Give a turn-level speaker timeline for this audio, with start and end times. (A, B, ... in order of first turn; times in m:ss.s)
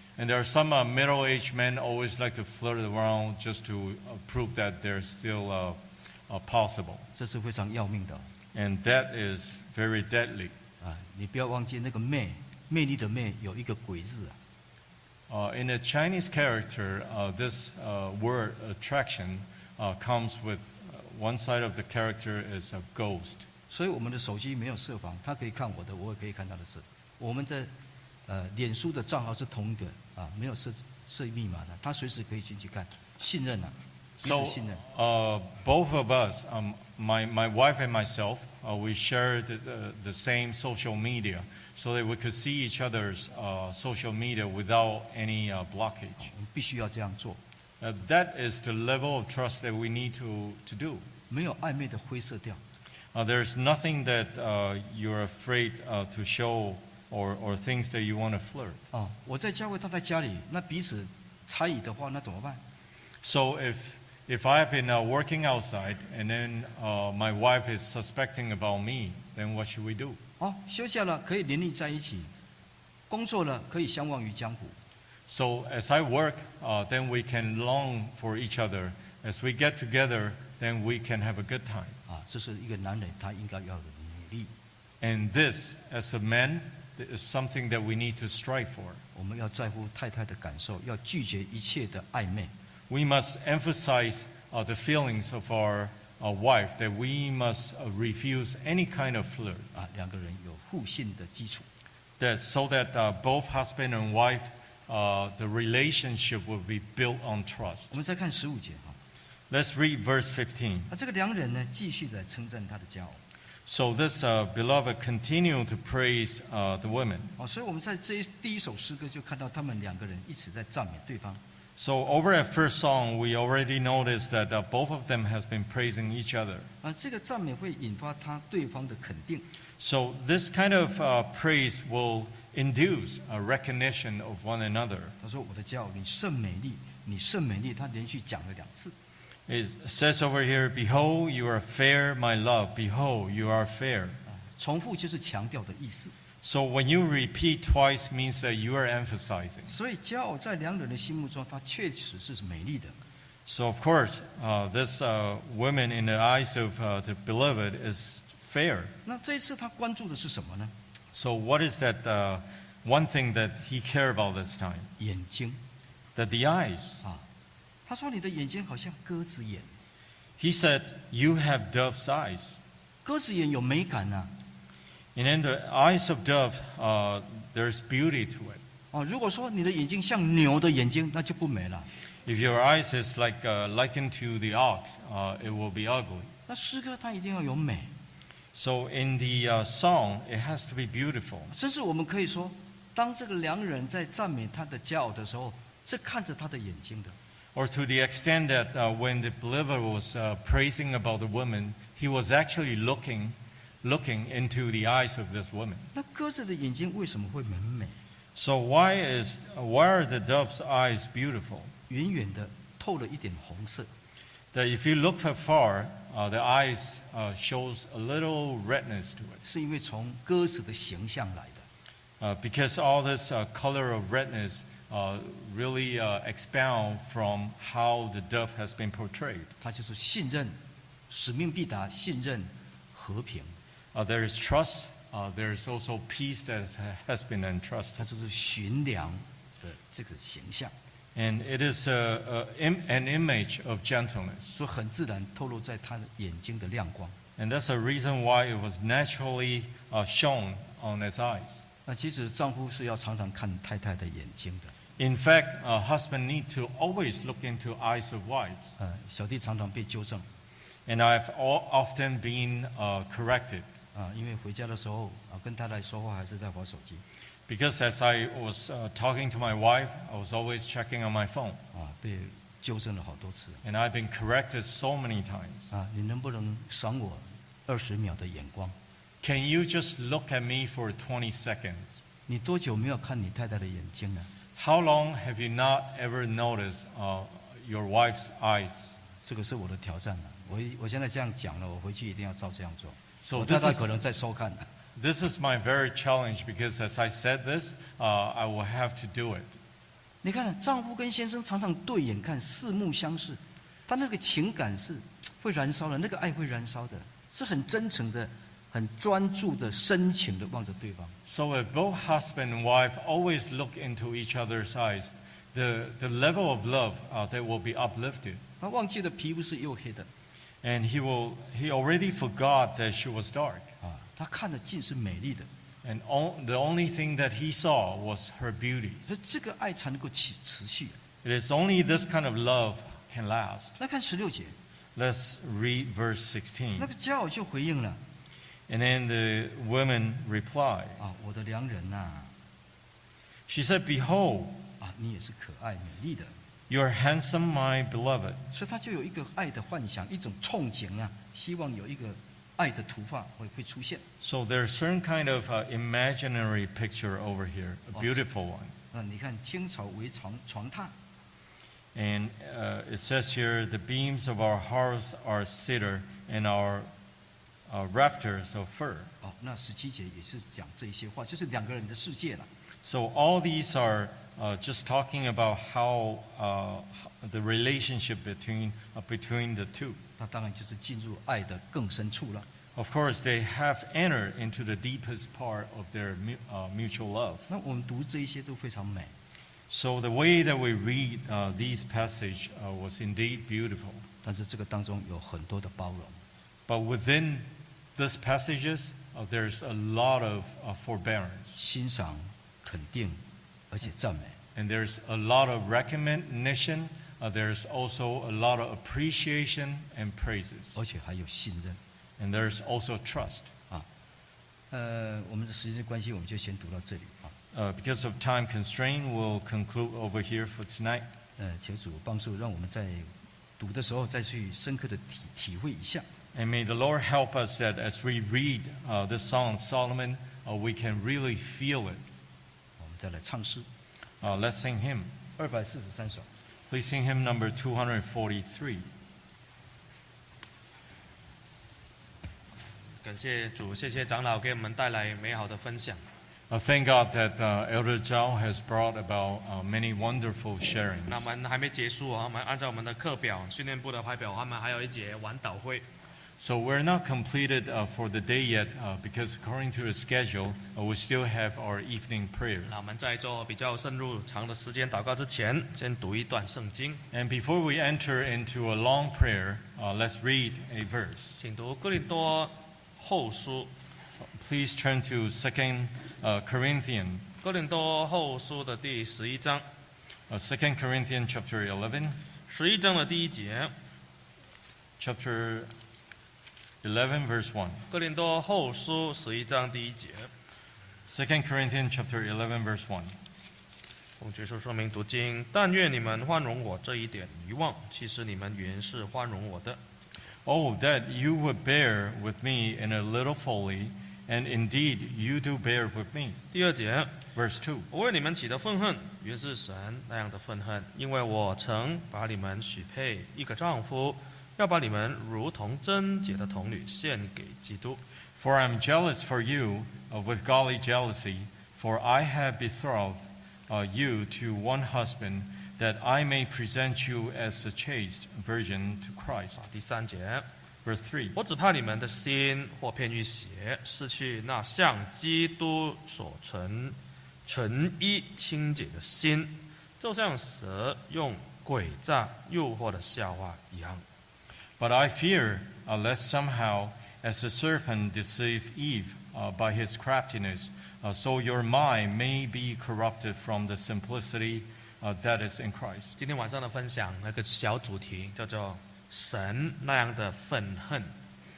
0:00.2-0:07.0 A
0:07.2-0:08.2 B
0:08.5-0:10.5 A
0:10.8-0:14.4 B
0:15.3-0:23.5 A
0:23.7-0:27.7 B
0:28.3-0:34.8 B
0:34.2-0:46.3 A
0:46.2-0:47.4 B
0:47.8-0:51.1 A
0:51.3-0:52.6 B
0:53.1-0:58.8 A
0:58.9-1:02.6 B
1:03.2-1:10.2 A
1:10.4-1:12.3 B
1:13.1-1:14.7 B
1:15.3-1:22.0 A
1:22.1-1:24.5 B
1:25.0-1:29.0 A
1:29.1-1:32.5 B
1:32.9-1:39.7 A
1:39.7-1:41.6 B
1:42.2-1:47.9 A
1:47.9-1:49.0 B
1:49.5-1:50.9 A
1:50.9-1:53.2 B
1:53.7-1:57.4 A
1:57.4-2:01.4 B
2:01.8-2:06.7 A
2:06.8-2:09.4 B
2:09.8-2:15.1 A
2:15.2-2:18.9 B
2:19.5-2:24.2 A
2:24.3-2:26.1 B
2:26.4-2:29.7 A
2:29.7-2:33.0 B
2:33.5-2:38.9 A
2:39.0-2:40.7 B
2:41.1-2:44.9 A
2:45.0-2:45.6 B
2:46.2-2:47.0 A
2:47.9-2:49.7 B
2:50.4-2:52.6 A
2:53.0-2:54.3 B
2:55.1-2:58.6 A
2:58.9-3:01.9 B
3:02.2-3:06.3 A
3:06.5-3:07.9 B
3:08.5-3:11.5 A
3:11.5-3:17.2 B
3:17.5-3:25.9 A
3:25.9-3:28.0 B
3:28.4-3:31.7 A
3:31.9-3:33.9 B
3:34.5-3:39.4 A
3:39.4-3:41.6 B
3:42.2-3:49.5 A
3:49.6-3:50.6 B
3:51.1-3:53.5 B
3:53.9-3:58.0 A
3:58.0-4:00.7 B
4:01.1-4:04.5 A
4:04.5-4:07.1 B
4:07.4-4:11.6 A
4:11.8-4:14.7 B
4:15.0-4:18.7 A
4:18.8-4:20.2 B
4:20.8-4:23.7 A
4:23.9-4:27.0 B
4:27.5-4:31.6 A
4:31.7-4:33.6 B
4:33.6-4:35.7 A
4:35.7-4:38.7 B
4:39.2-4:42.0 A
4:42.3-4:44.3 B
4:44.6-4:48.9 A
4:49.2-4:54.7 B
4:53.2-4:53.9 A
4:55.0-4:59.5 A
5:00.2-5:11.2 B
5:11.2-5:18.4 A
5:18.6-5:20.1 B
5:20.6-5:23.7 A
5:23.8-5:25.5 B
5:25.8-5:29.0 A
5:29.0-5:31.0 B
5:31.2-5:33.8 A
5:33.8-5:34.5 B
5:35.0-5:36.9 A
5:36.8-5:38.0 B
5:38.7-5:41.0 A
5:41.0-5:42.3 B
5:43.5-5:44.7 A
5:44.8-5:46.3 B
5:46.7-5:48.4 A
5:48.5-5:54.0 B
5:54.2-5:58.7 A
5:58.9-6:00.9 B
6:01.9-6:06.9 A
6:07.7-6:09.1 A
6:09.2-6:12.5 B
6:12.8-6:20.0 A
6:20.2-6:22.4 B
6:22.7-6:27.5 A
6:27.5-6:29.1 B
6:29.7-6:34.0 A
6:34.2-6:36.2 B
6:36.7-6:41.5 A
6:41.5-6:44.4 B
6:44.5-6:50.8 A
6:50.7-6:51.8 B
6:52.2-6:53.5 A
6:54.7-6:57.3 B
6:57.5-7:01.0 A
7:01.4-7:06.0 B
7:06.3-7:12.0 A
7:12.8-7:13.6 B
7:14.2-7:15.1 A
7:15.4-7:16.2 B
7:16.7-7:18.8 A
7:23.0-7:26.0 C
7:26.5-7:31.3 A
7:31.1-7:35.8 C
7:36.4-7:42.7 A
7:42.7-7:47.0 C
7:47.1-7:51.4 A
7:51.4-7:53.7 C
7:54.2-7:57.3 A
7:57.4-7:59.6 C
8:00.3-8:02.2 A
8:02.5-8:03.7 C
8:05.0-8:05.7 A
8:06.8-8:07.8 A
8:07.9-8:10.3 C
8:11.1-8:13.1 A
8:14.2-8:19.8 C
8:20.4-8:26.4 A
8:26.5-8:27.2 C
8:27.3-8:27.9 A
8:27.9-8:38.0 C
8:38.4-8:49.6 A
8:49.6-8:50.4 C
8:50.8-8:51.4 A
8:51.4-9:04.0 C
9:04.8-9:16.1 A
9:16.2-9:21.1 C